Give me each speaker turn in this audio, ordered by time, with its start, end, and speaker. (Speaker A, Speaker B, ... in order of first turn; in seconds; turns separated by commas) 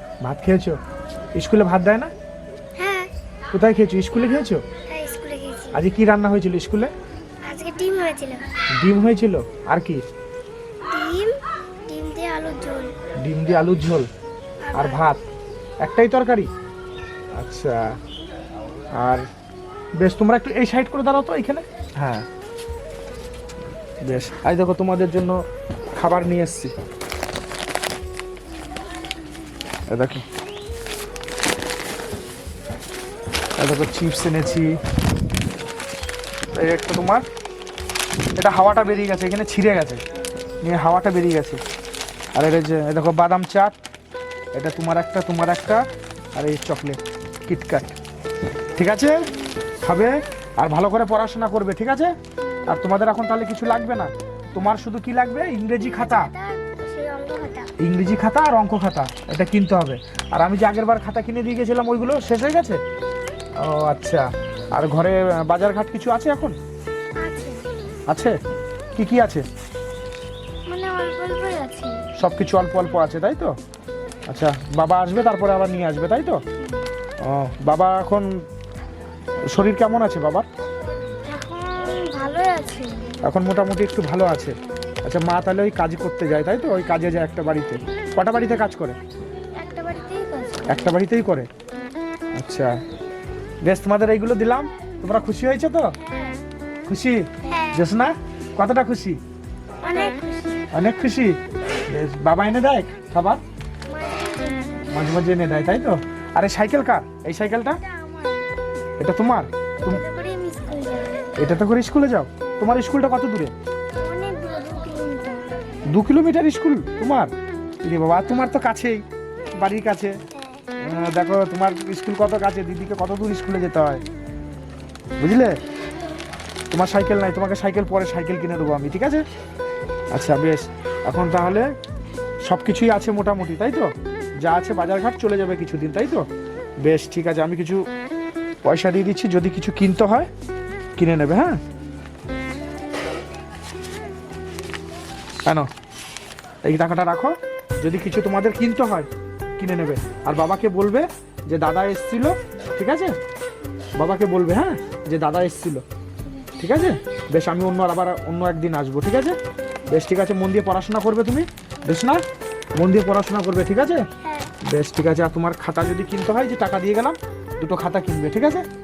Speaker A: 0.2-0.8, Speaker A: 1.4-2.1, Speaker B: 2.8-3.1, Speaker A: 3.5-4.6, Speaker B: 4.9-5.8, Speaker A: 5.7-6.9, Speaker B: 7.5-8.4, Speaker A: 8.8-10.0, Speaker B: 10.9-11.3, Speaker B: 11.9-12.9, Speaker A: 13.2-14.1, Speaker B: 14.6-15.1, Speaker A: 14.8-15.2, Speaker A: 15.8-16.5, Speaker A: 17.4-17.9, Speaker A: 19.0-19.2, Speaker A: 20.0-22.3, Speaker A: 24.1-25.4, Speaker A: 26.0-26.7, Speaker A: 29.9-30.2, Speaker A: 33.6-34.8, Speaker A: 36.5-37.2, Speaker A: 38.4-40.0, Speaker A: 40.6-41.6, Speaker A: 42.4-43.8, Speaker A: 44.5-45.8, Speaker A: 46.4-48.0, Speaker A: 48.8-49.3, Speaker B: 49.3-49.6, Speaker A: 49.8-52.1, Speaker B: 52.4-52.8, Speaker A: 52.7-56.3, Speaker B: 56.0-57.7, Speaker A: 57.8-62.8, Speaker A: 63.6-66.6, Speaker B: 67.2-67.7, Speaker A: 68.1-68.3, Speaker A: 69.0-69.5, Speaker B: 70.7-72.0, Speaker A: 72.2-73.5, Speaker A: 74.3-76.4, Speaker A: 77.2-78.3, Speaker A: 79.5-80.5, Speaker B: 81.3-83.2, Speaker A: 83.2-84.5, Speaker B: 84.6-84.9, Speaker A: 85.0-89.0, Speaker B: 89.6-91.0, Speaker A: 90.7-91.5, Speaker A: 92.3-92.7, Speaker A: 93.6-95.9, Speaker B: 96.0-96.5, Speaker A: 96.9-97.2, Speaker B: 97.5-97.8, Speaker A: 97.7-99.2, Speaker B: 99.8-100.7, Speaker A: 100.7-101.4, Speaker A: 101.9-103.4, Speaker B: 103.9-105.1, Speaker A: 104.9-107.8, Speaker B: 107.7-108.5, Speaker A: 109.0-110.0, Speaker B: 109.8-111.4, Speaker A: 111.4-113.5, Speaker B: 112.4-112.8, Speaker B: 114.0-115.7, Speaker A: 115.9-117.3, Speaker A: 117.8-119.0, Speaker A: 119.6-120.2, Speaker A: 120.8-124.0, Speaker A: 125.2-125.5, Speaker A: 126.7-129.2, Speaker A: 130.1-131.7, Speaker A: 132.5-136.3, Speaker A: 136.8-137.8, Speaker A: 138.6-140.3, Speaker A: 141.0-141.6, Speaker A: 146.7-149.1, Speaker A: 149.6-153.2, Speaker A: 154.0-155.8, Speaker A: 156.6-159.4, Speaker A: 159.9-162.2, Speaker A: 162.8-164.1, Speaker B: 164.2-164.5, Speaker A: 164.6-168.7